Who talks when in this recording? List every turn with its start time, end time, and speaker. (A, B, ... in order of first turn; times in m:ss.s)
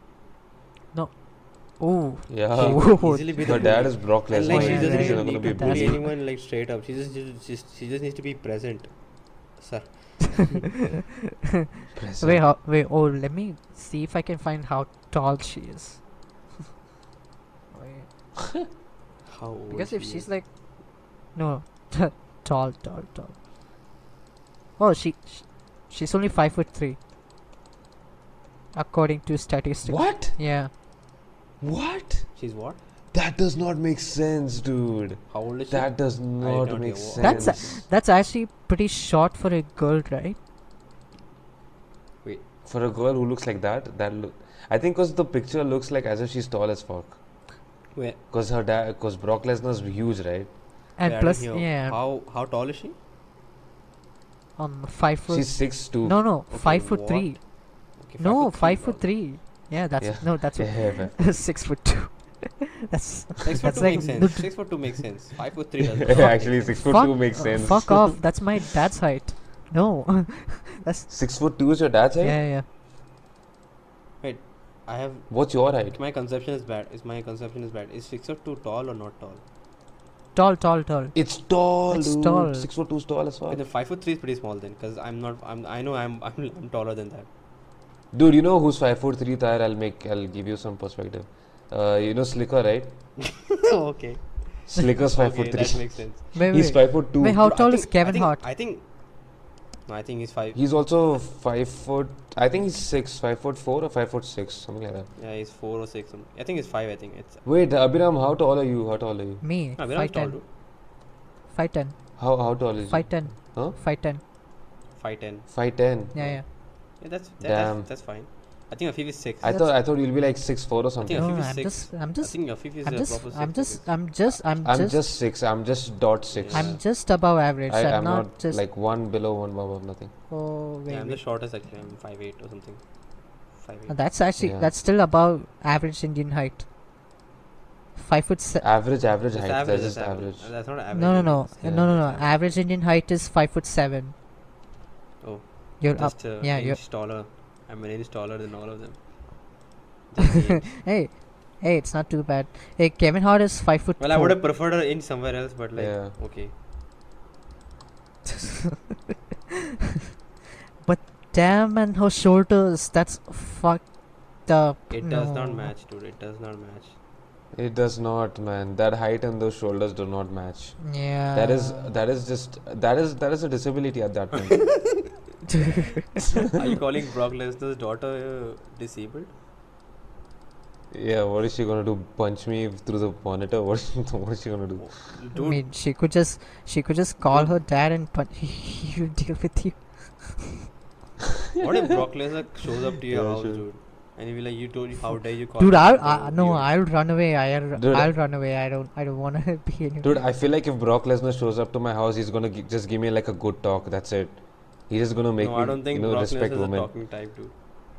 0:00.9-0:06.1 A
0:02.3-0:06.1 B
0:02.5-0:10.6 C
0:11.9-0:12.4 B
0:12.2-0:16.0 A
0:17.7-0:18.1 A
0:19.3-0:20.3 C
0:19.7-0:23.4 A
0:24.8-0:27.0 A
0:28.7-0:30.7 A
0:29.8-0:30.4 B
0:31.6-0:32.4 B
0:32.4-0:32.8 C
0:33.1-0:37.8 B
0:35.3-0:37.8 C
0:37.2-0:40.4 A
0:42.6-0:47.2 B
0:47.9-0:48.2 C
0:48.3-0:50.5 B
0:51.0-0:52.0 A
0:51.0-0:53.0 C
0:54.6-1:04.6 A
0:55.3-0:56.2 B
0:56.5-0:59.1 C
1:00.0-1:01.2 B
1:03.4-1:07.1 C
1:06.0-1:08.3 B
1:06.1-1:11.7 A
1:11.1-1:12.4 B
1:12.2-1:12.6 A
1:14.2-1:19.4 C
1:15.3-1:16.0 B
1:20.3-1:22.7 A
1:21.1-1:23.6 B
1:23.5-1:27.3 C
1:28.1-1:33.0 B
1:33.4-1:36.3 C
1:34.7-1:37.5 B
1:36.3-1:38.4 A
1:37.4-1:40.6 C
1:40.6-1:45.1 B
1:45.2-1:47.4 C
1:47.4-1:49.4 B
1:49.4-1:50.4 A
1:49.8-1:50.4 C
1:51.5-1:54.2 A
1:52.2-1:53.8 B
1:55.0-1:55.5 C
1:55.5-1:56.5 B
1:56.1-1:56.4 A
1:57.0-1:59.6 C
1:57.4-1:57.9 B
1:59.4-2:01.4 B
1:59.4-1:59.7 A
2:01.0-2:04.1 C
2:01.1-2:05.0 A
2:04.6-2:07.1 B
2:06.3-2:06.8 C
2:06.5-2:08.6 A
2:07.7-2:10.1 B
2:10.3-2:11.2 A
2:10.9-2:14.1 C
2:13.9-2:16.6 A
2:14.4-2:14.7 B
2:18.0-2:18.6 A
2:18.6-2:20.6 B
2:19.3-2:22.6 C
2:20.9-2:24.1 A
2:21.6-2:22.0 B
2:25.2-2:29.5 C
2:25.8-2:26.8 A
2:30.1-2:30.7 C
2:30.2-2:34.4 A
2:34.0-2:36.5 C
2:35.8-2:36.2 B
2:40.8-2:45.7 A
2:44.9-2:47.0 C
2:47.5-2:55.0 B
2:50.8-2:51.9 A
2:56.5-2:59.3 C
3:00.9-3:05.0 B
3:04.8-3:05.6 C
3:05.3-3:10.6 A
3:11.6-3:16.7 C
3:13.1-3:13.6 B
3:15.6-3:20.1 A
3:17.7-3:18.1 B
3:20.0-3:26.9 B
3:25.4-3:27.5 C